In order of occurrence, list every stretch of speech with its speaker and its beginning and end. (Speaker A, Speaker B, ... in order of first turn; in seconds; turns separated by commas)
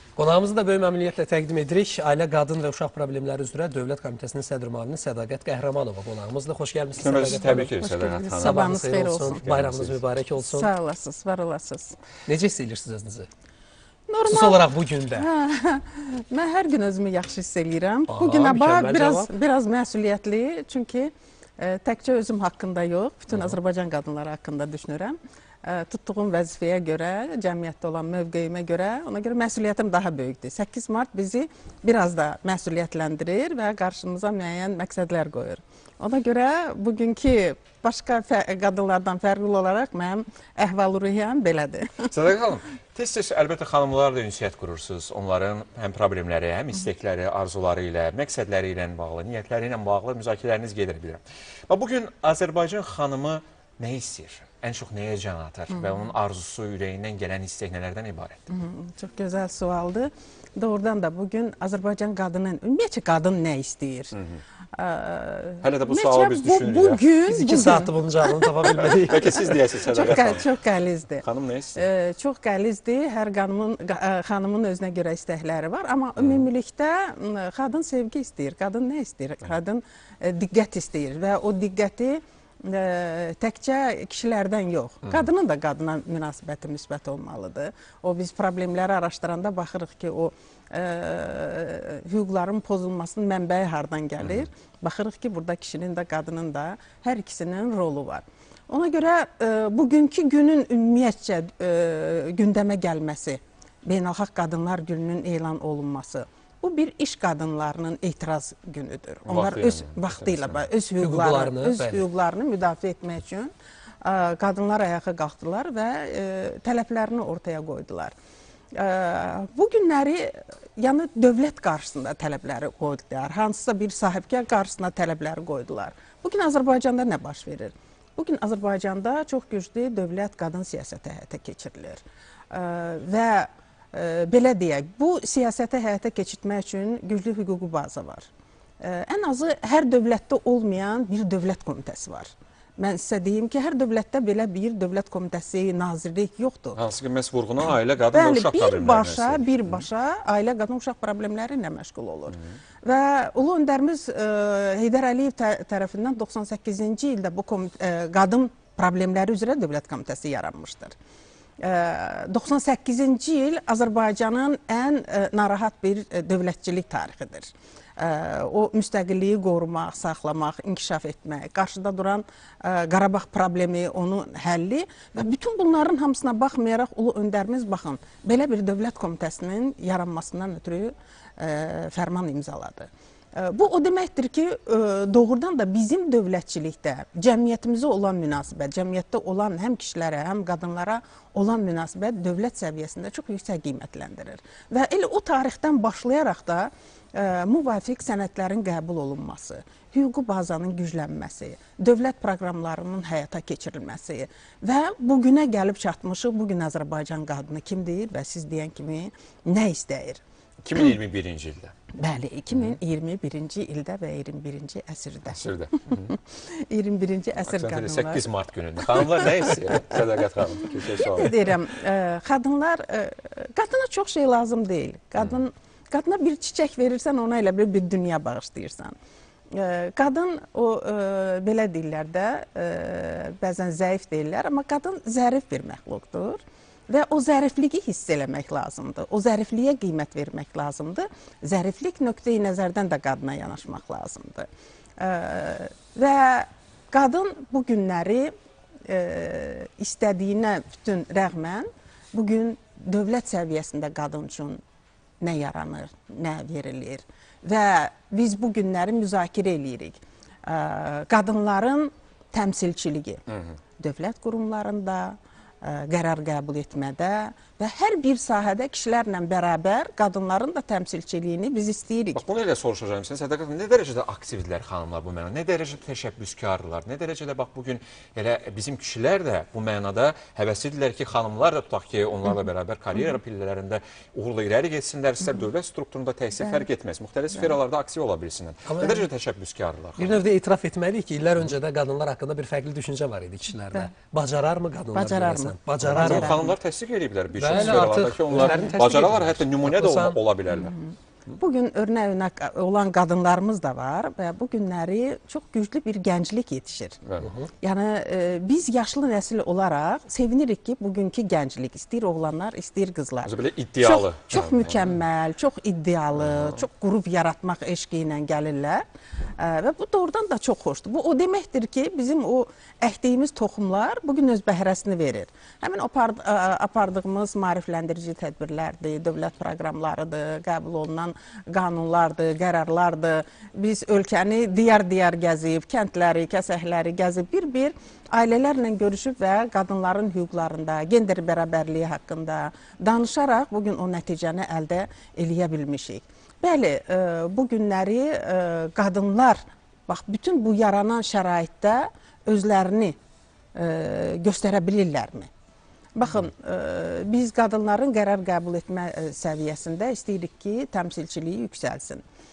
Speaker A: 0.1-7.7, Speaker B: 7.0-8.8, Speaker C: 7.8-9.4, Speaker A: 8.3-10.7, Speaker B: 9.3-10.0, Speaker C: 10.4-12.0, Speaker A: 12.3-13.3, Speaker C: 14.1-42.1, Speaker A: 14.3-15.3, Speaker A: 18.1-19.3, Speaker B: 42.1-58.4, Speaker C: 58.5-64.1, Speaker B: 64.1-64.4, Speaker C: 64.8-71.2, Speaker B: 65.6-67.0, Speaker A: 67.2-69.5, Speaker B: 68.8-70.5, Speaker B: 71.2-71.8, Speaker C: 71.7-113.5, Speaker B: 76.2-76.4, Speaker B: 94.2-94.5, Speaker B: 109.2-110.7, Speaker A: 111.0-112.0, Speaker C: 114.0-118.1, Speaker C: 118.7-138.3, Speaker C: 138.8-146.8, Speaker B: 146.7-149.8, Speaker C: 148.0-160.9, Speaker C: 161.6-210.2, Speaker B: 210.6-211.7, Speaker C: 212.0-218.3, Speaker B: 212.5-212.8, Speaker B: 215.3-216.1, Speaker B: 217.4-221.5, Speaker C: 218.8-219.5, Speaker C: 220.8-228.9, Speaker C: 229.5-244.5, Speaker C: 245.0-248.3, Speaker C: 248.9-254.6, Speaker C: 255.2-263.2, Speaker B: 263.3-263.6, Speaker C: 263.8-272.2, Speaker B: 272.1-290.2, Speaker A: 288.7-289.0, Speaker A: 290.0-296.5, Speaker C: 294.9-296.5, Speaker B: 295.9-300.7, Speaker A: 297.4-300.2, Speaker C: 300.5-307.0, Speaker B: 307.0-307.3, Speaker A: 307.2-307.5, Speaker C: 307.6-318.8, Speaker B: 313.2-314.9, Speaker C: 319.4-352.9, Speaker C: 353.5-355.3, Speaker C: 355.9-362.0